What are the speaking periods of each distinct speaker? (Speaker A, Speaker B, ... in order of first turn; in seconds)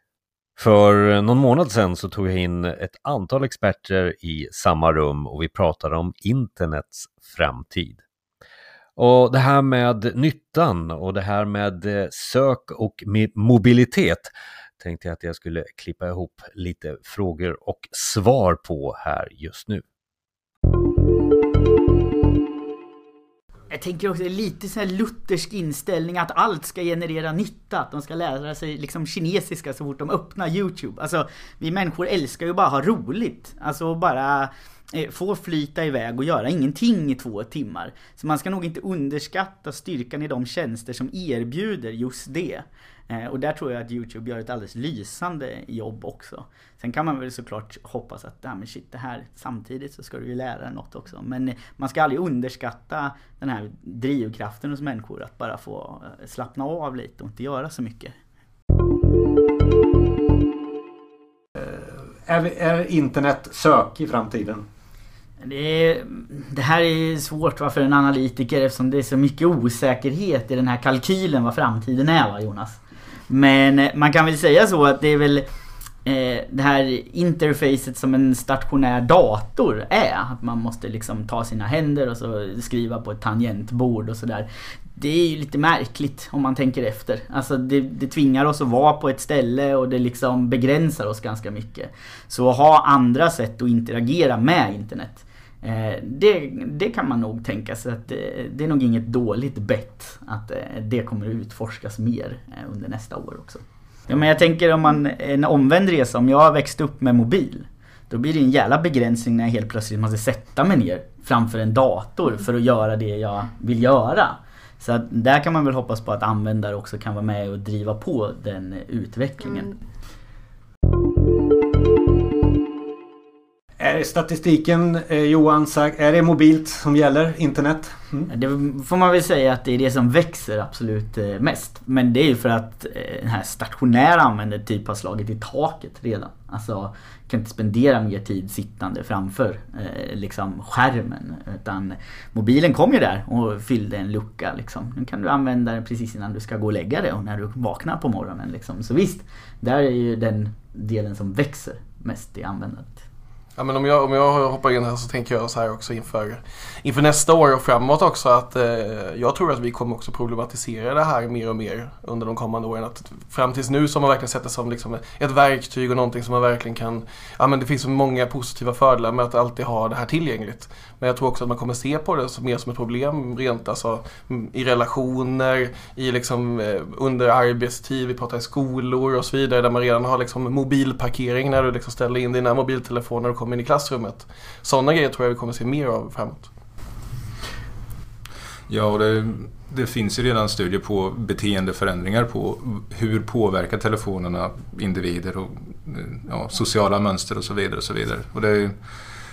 Speaker A: 0.6-8.0, 9.0-19.8
Speaker B: 23.7-58.1, 65.4-72.8, 73.3-75.5, 76.0-119.7, 128.3-153.0
Speaker C: 61.6-64.6, 123.8-128.3
Speaker D: 153.6-186.5
Speaker E: 188.7-198.8